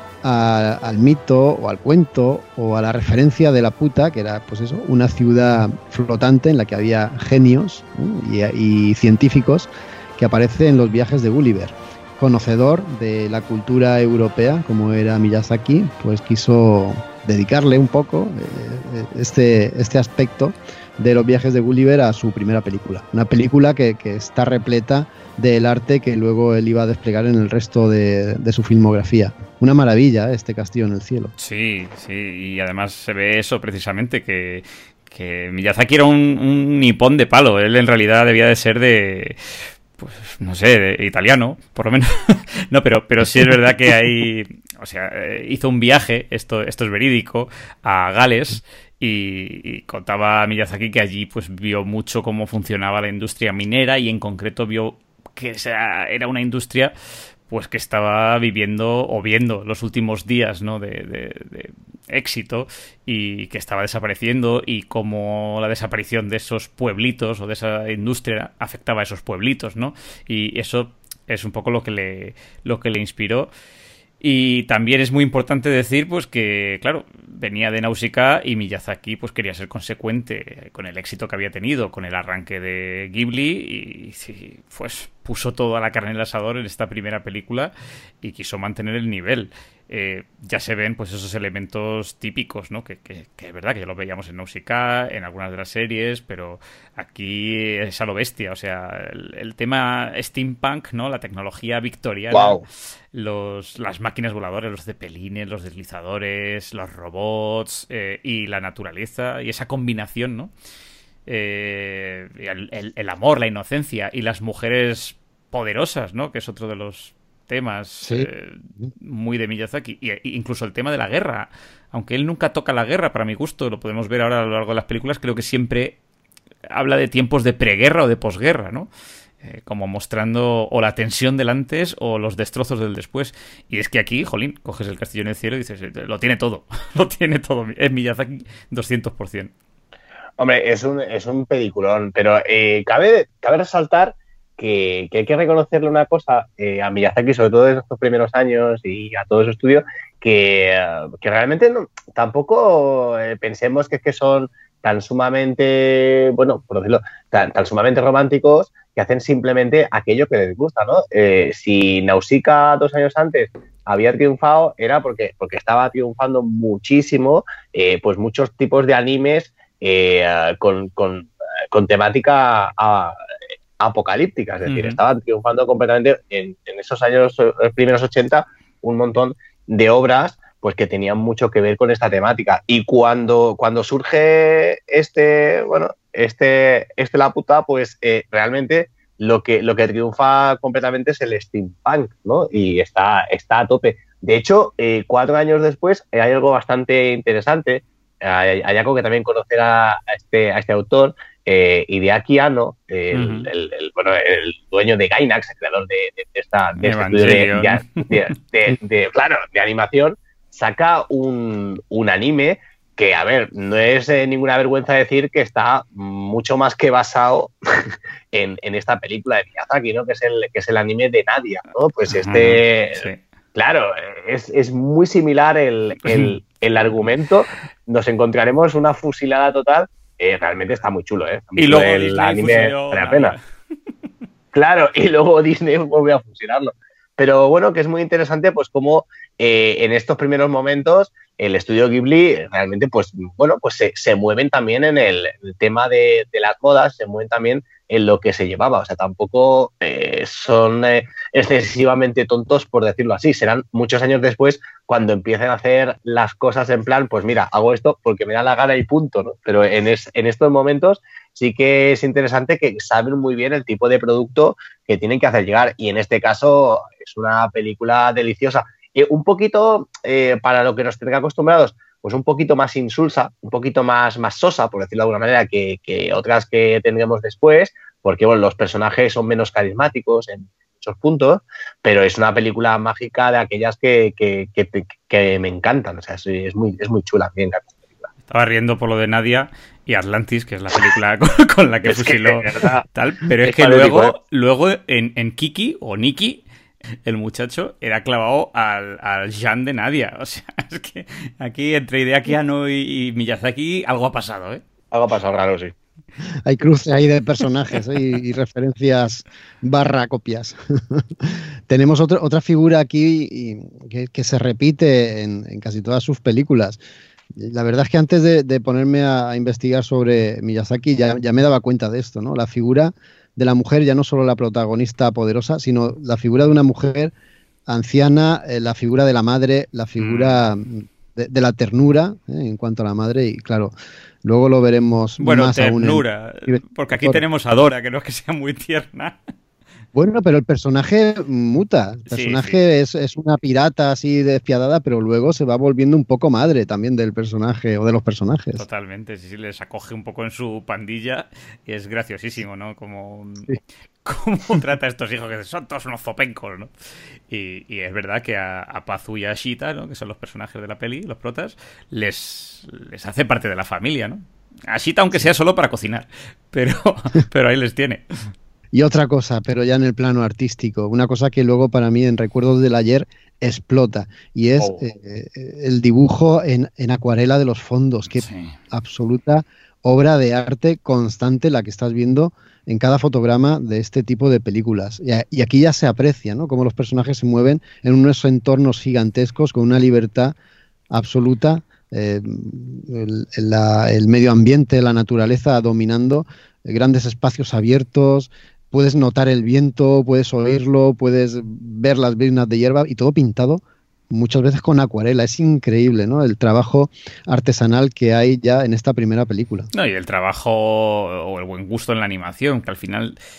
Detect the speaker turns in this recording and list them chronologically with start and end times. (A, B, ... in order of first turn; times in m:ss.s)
0:00.2-0:31.3 A
0:31.4-0:56.9 B
0:57.5-1:13.5 B
1:14.2-1:50.5 B
1:42.3-1:42.6 C
1:51.3-2:06.0 B
1:58.0-1:58.3 A
2:06.7-2:08.9 B
2:09.4-2:19.5 B
2:20.4-2:53.2 C
2:53.8-3:53.3 C
2:54.6-2:55.0 B
3:23.1-3:23.5 B
3:26.8-3:28.2 B
3:42.1-3:43.2 B
3:46.0-3:46.3 B
3:51.6-3:53.4 B
3:54.5-4:48.1 C
4:48.3-4:56.4 B
4:51.8-4:52.8 C
4:53.4-4:54.1 C
4:57.0-5:04.6 B
5:04.9-5:05.7 C
5:06.4-5:16.8 A
5:17.3-5:27.1 A
5:27.7-5:33.7 A
5:30.0-5:30.4 B
5:34.2-5:37.2 A
5:35.2-5:39.2 B
5:39.9-5:48.6 A
5:42.1-5:42.6 B
5:48.5-5:53.5 B
5:54.0-5:56.7 B
5:57.3-6:08.0 B
6:08.7-6:30.3 A
6:18.1-6:18.5 B
6:30.9-6:49.7 A
6:49.7-6:53.2 B